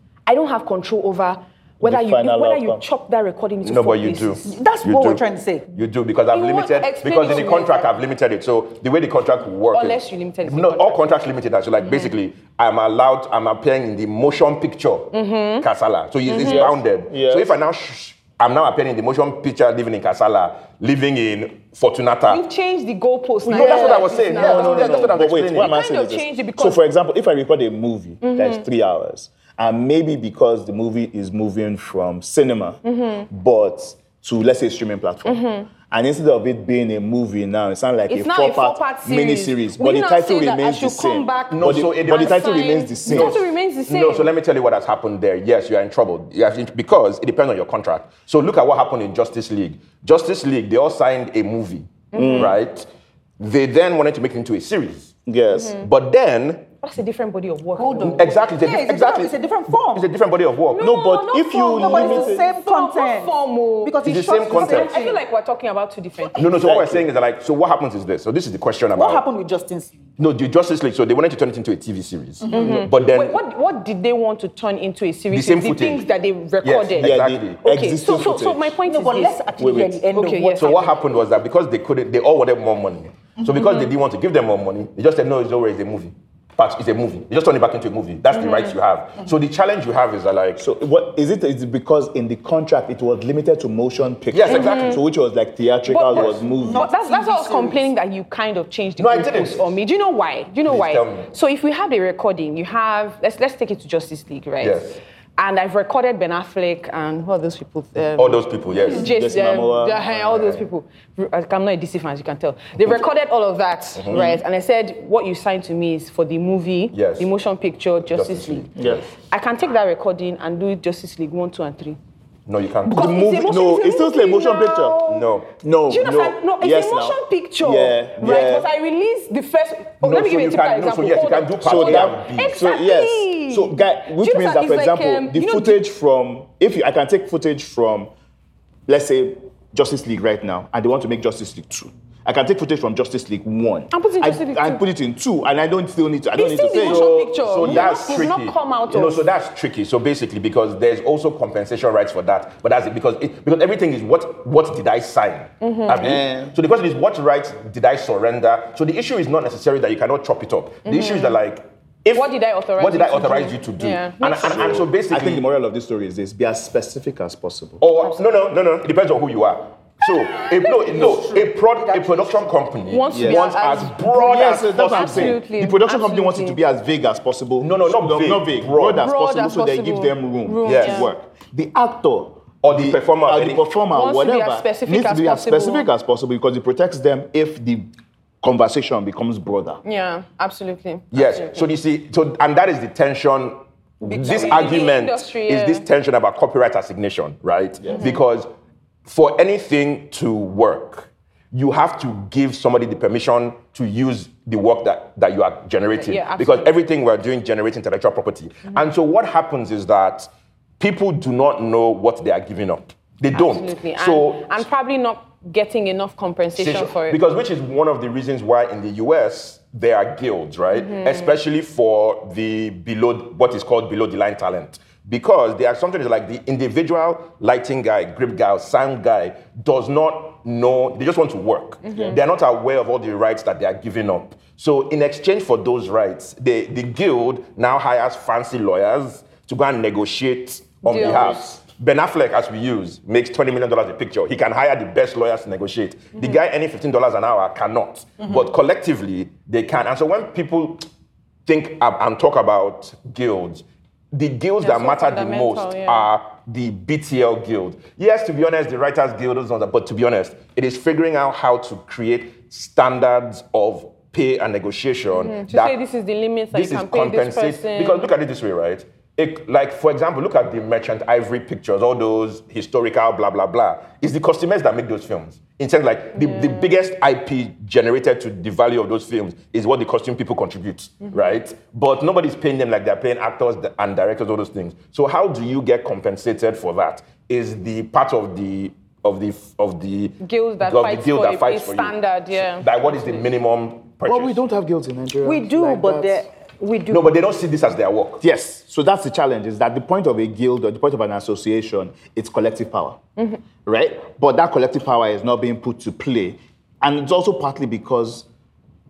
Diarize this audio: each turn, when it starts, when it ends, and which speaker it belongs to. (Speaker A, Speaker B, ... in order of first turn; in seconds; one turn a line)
Speaker A: 0.3-4.5
Speaker B: 1.8-2.8
Speaker C: 3.6-22.4
Speaker D: 4.4-5.7
Speaker A: 6.3-7.9
Speaker A: 9.7-11.0
Speaker A: 11.8-12.1
Speaker A: 15.1-15.7
Speaker A: 16.3-16.7
Speaker B: 16.3-17.5
Speaker A: 22.3-26.8
Speaker C: 23.5-25.8
Speaker B: 23.5-43.5
Speaker A: 28.2-28.6
Speaker A: 32.8-33.3
Speaker A: 35.2-35.7
Speaker A: 38.1-44.3
Speaker C: 41.5-55.1
Speaker A: 52.1-52.5
Speaker B: 52.1-52.6
Speaker B: 55.3-55.8
Speaker C: 55.7-56.7
Speaker A: 56.8-58.3
Speaker D: 57.8-60.1
Speaker C: 58.1-60.9
Speaker A: 60.7-66.6
Speaker B: 60.8-62.5
Speaker D: 61.7-65.2
Speaker C: 64.0-64.9
Speaker C: 66.3-69.2
Speaker B: 66.6-67.0
Speaker D: 68.9-70.0
Speaker C: 70.2-73.4
Speaker D: 72.4-72.7
Speaker A: 72.5-79.4
Speaker C: 75.3-76.1
Speaker C: 76.6-77.6
Speaker B: 77.0-78.8
Speaker D: 78.8-80.9
Speaker B: 79.6-80.0
Speaker A: 80.1-80.9
Speaker C: 80.6-90.6
Speaker A: 88.3-88.8
Speaker B: 90.6-96.9
Speaker C: 94.3-95.0
Speaker A: 94.5-95.0
Speaker A: 95.9-122.0
Speaker C: 96.1-96.4
Speaker D: 96.6-97.9
Speaker C: 99.0-99.7
Speaker C: 100.7-101.3
Speaker C: 104.6-105.0
Speaker C: 108.2-109.1
Speaker B: 109.0-110.0
Speaker C: 110.1-110.6
Speaker C: 114.0-114.4
Speaker B: 114.1-114.4
Speaker C: 116.9-117.3
Speaker C: 118.1-119.1
Speaker B: 118.8-119.0
Speaker C: 122.5-123.1
Speaker A: 122.8-125.3
Speaker B: 122.9-125.0
Speaker C: 125.1-125.5
Speaker B: 125.6-128.7
Speaker A: 125.9-135.8
Speaker C: 130.0-132.6
Speaker B: 131.6-138.1
Speaker B: 138.9-147.1
Speaker A: 143.9-144.8
Speaker A: 146.3-149.2
Speaker C: 146.7-165.4
Speaker B: 147.6-147.9
Speaker A: 155.6-156.0
Speaker B: 156.0-156.6
Speaker A: 160.9-161.4
Speaker A: 162.2-164.6
Speaker B: 164.4-167.8
Speaker C: 167.8-175.4
Speaker D: 170.5-172.5
Speaker A: 172.9-176.6
Speaker B: 173.1-173.4
Speaker B: 174.2-187.9
Speaker C: 177.6-179.1
Speaker A: 179.0-181.1
Speaker C: 180.6-181.1
Speaker C: 182.6-183.7
Speaker A: 183.9-185.9
Speaker B: 188.4-189.8
Speaker A: 189.8-191.7
Speaker C: 191.1-198.5
Speaker D: 194.0-194.8
Speaker A: 194.2-195.8
Speaker B: 197.8-198.1
Speaker C: 199.1-210.3
Speaker A: 206.0-206.7
Speaker C: 210.8-214.7
Speaker A: 213.3-217.2
Speaker C: 216.6-250.8
Speaker A: 220.7-221.4
Speaker A: 231.8-232.2
Speaker A: 240.8-241.4
Speaker B: 240.9-241.5
Speaker C: 251.5-265.8
Speaker A: 254.6-256.1
Speaker A: 265.1-268.1
Speaker C: 266.5-294.4
Speaker A: 290.2-293.1
Speaker B: 294.1-296.2
Speaker A: 295.2-297.0
Speaker D: 295.5-296.3
Speaker C: 296.9-298.2
Speaker B: 298.2-303.0
Speaker B: 303.6-308.3